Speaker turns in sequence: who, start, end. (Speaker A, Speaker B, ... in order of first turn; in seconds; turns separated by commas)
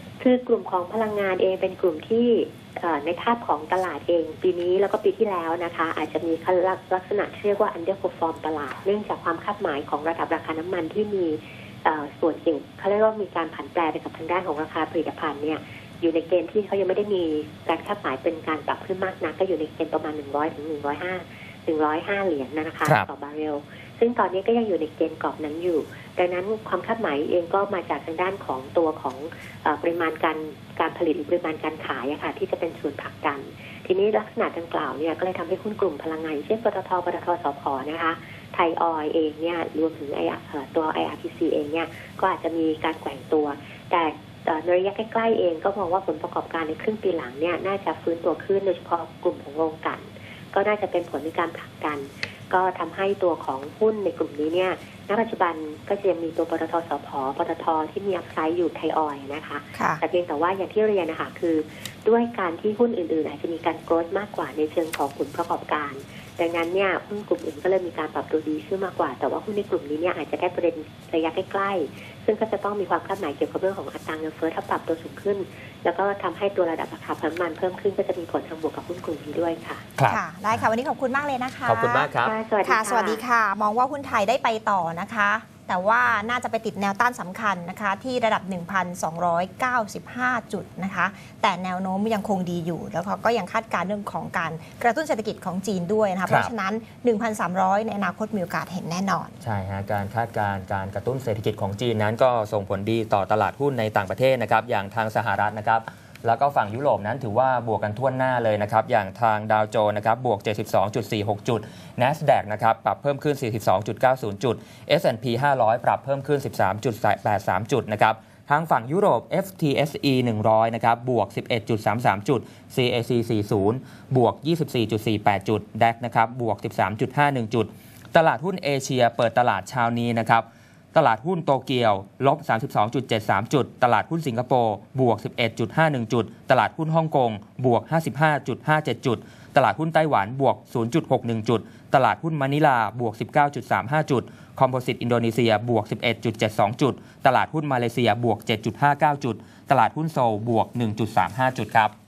Speaker A: 0.2-79.8, Speaker B: 59.7-60.0, Speaker C: 80.0-80.6, Speaker B: 80.1-82.1, Speaker C: 81.7-82.3, Speaker A: 82.2-83.2, Speaker B: 82.6-99.3, Speaker C: 96.3-96.5, Speaker C: 99.4-151.9